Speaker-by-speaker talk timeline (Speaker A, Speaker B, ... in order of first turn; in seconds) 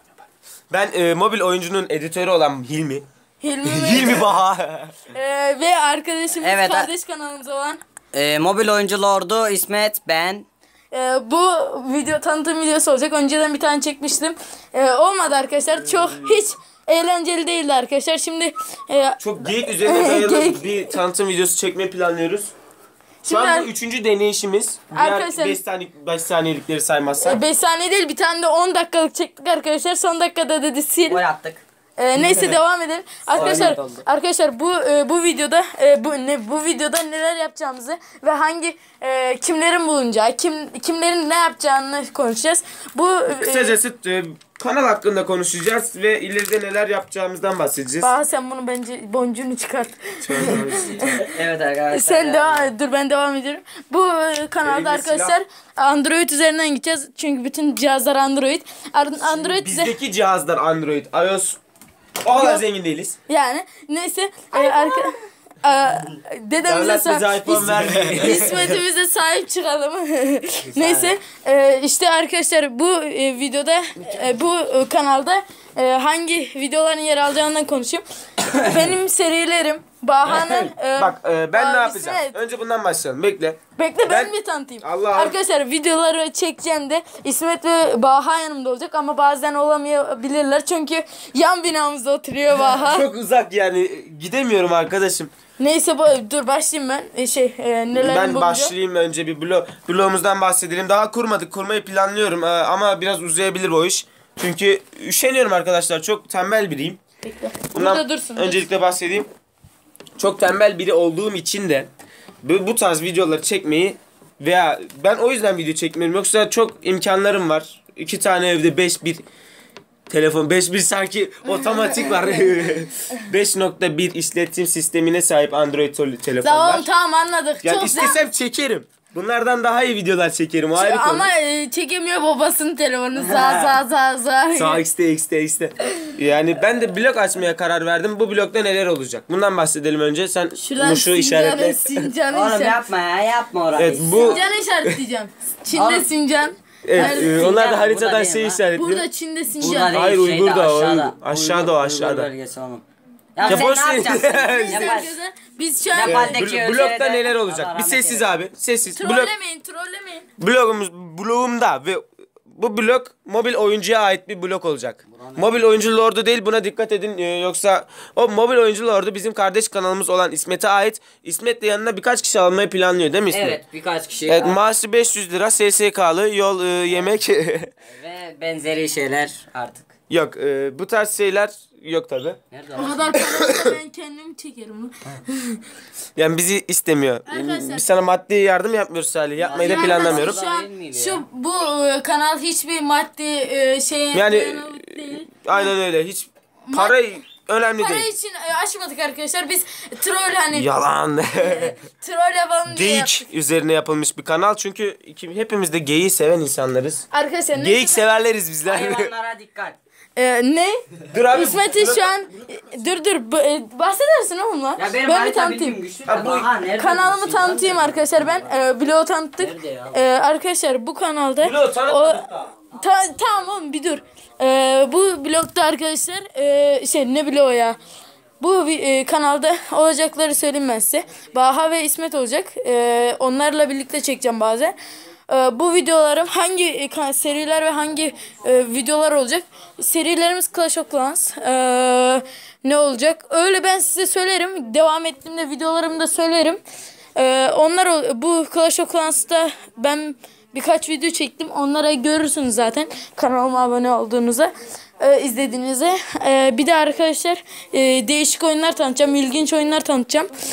Speaker A: 0.7-3.0, 3.6-5.1, 19.2-22.5, 23.3-27.4, 33.3-33.8, 43.3-48.1, 50.2-51.0, 54.6-55.4, 59.2-61.6, 62.2-63.2, 66.6-68.8, 80.2-85.4, 92.5-95.3, 97.9-107.0, 107.7-109.3, 110.2-111.9, 112.4-119.2, 120.1-126.9, 127.6-131.3, 134.6-142.1, 143.8-145.0, 146.8-149.1, 149.8-152.3, 153.4-155.0, 156.0-159.3, 160.4-173.6, 174.3-177.7, 180.1-182.4, 183.1-183.7, 186.2-190.4, 194.1-198.1, 200.5-201.8, 202.7-209.1, 211.1-212.2, 216.1-216.5, 221.4-222.5
Speaker B: 3.4-4.3, 5.0-7.8, 10.9-21.0, 23.2-23.7, 24.9-25.6, 27.2-31.2, 32.0-43.8, 48.0-51.3, 51.9-60.0, 62.3-62.7, 63.3-82.4, 83.8-93.1, 95.6-98.7, 107.2-108.7, 121.6-122.6, 126.4-128.2, 130.8-134.8, 140.6-142.8, 144.0-147.5, 148.6-150.1, 153.4-153.8, 154.5-156.4, 158.9-160.3, 182.8-185.6, 187.3-187.9, 189.4-195.8, 196.7-197.0, 197.8-200.7, 201.4-203.3, 207.1-208.2, 210.2-215.8, 216.6-227.8, 228.4-234.8, 235.3-246.6, 247.2-260.3
Speaker C: 6.4-6.9, 8.1-10.4, 31.1-31.6, 33.4-34.0, 51.0-52.7, 70.7-71.1, 133.2-133.8, 142.3-144.4, 145.7-146.1, 146.9-148.7, 149.6-152.8, 153.3-155.2, 155.9-158.3, 165.2-165.5, 173.3-174.6, 177.8-179.9, 182.5-183.2, 189.4-191.2, 208.7-209.8, 214.8-218.5, 219.4-220.0